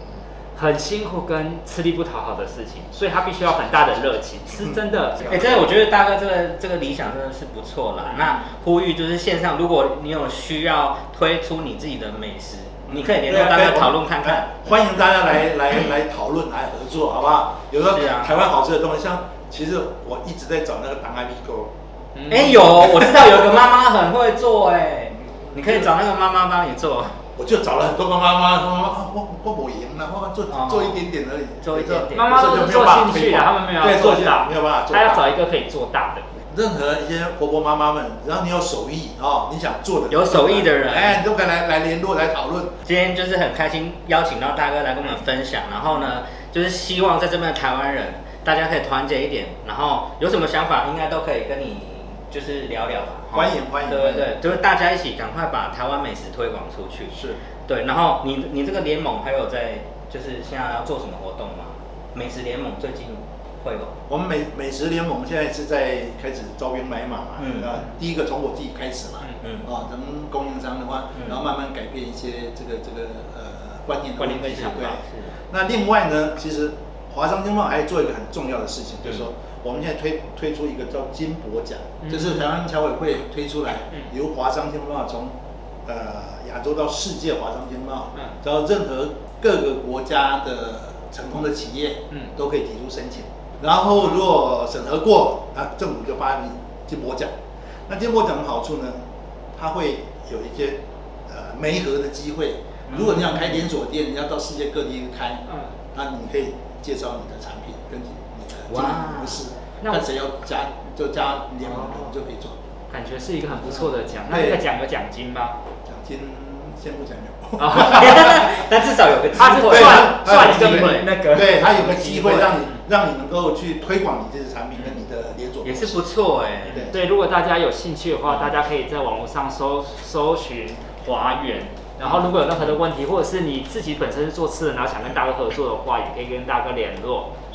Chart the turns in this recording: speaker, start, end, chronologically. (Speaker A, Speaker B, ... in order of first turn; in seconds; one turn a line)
Speaker A: 0.5-5.7
Speaker B: 5.2-14.6
Speaker C: 12.9-21.7
Speaker B: 17.9-18.3
Speaker A: 22.1-22.9
Speaker B: 22.3-27.2
Speaker C: 25.2-25.9
Speaker C: 27.4-35.3
Speaker B: 30.5-31.0
Speaker B: 31.6-32.4
Speaker A: 32.1-36.2
Speaker C: 36.5-42.8
Speaker B: 40.1-41.2
Speaker B: 42.8-63.9
Speaker C: 53.3-54.5
Speaker C: 57.1-57.4
Speaker C: 64.1-97.3
Speaker B: 67.4-67.7
Speaker A: 74.2-75.0
Speaker B: 74.9-75.3
Speaker A: 82.0-82.5
Speaker A: 93.9-94.2
Speaker C: 97.9-99.0
Speaker C: 99.5-112.6
Speaker A: 102.9-103.7
Speaker A: 105.5-105.7
Speaker B: 108.7-109.4
Speaker A: 111.6-112.1
Speaker A: 112.9-115.6
Speaker C: 114.3-114.6
Speaker C: 115.8-118.5
Speaker A: 117.6-118.5
Speaker B: 117.7-121.1
Speaker A: 119.3-122.8
Speaker C: 119.6-126.0
Speaker B: 125.6-126.9
Speaker C: 126.7-126.9
Speaker A: 126.7-137.3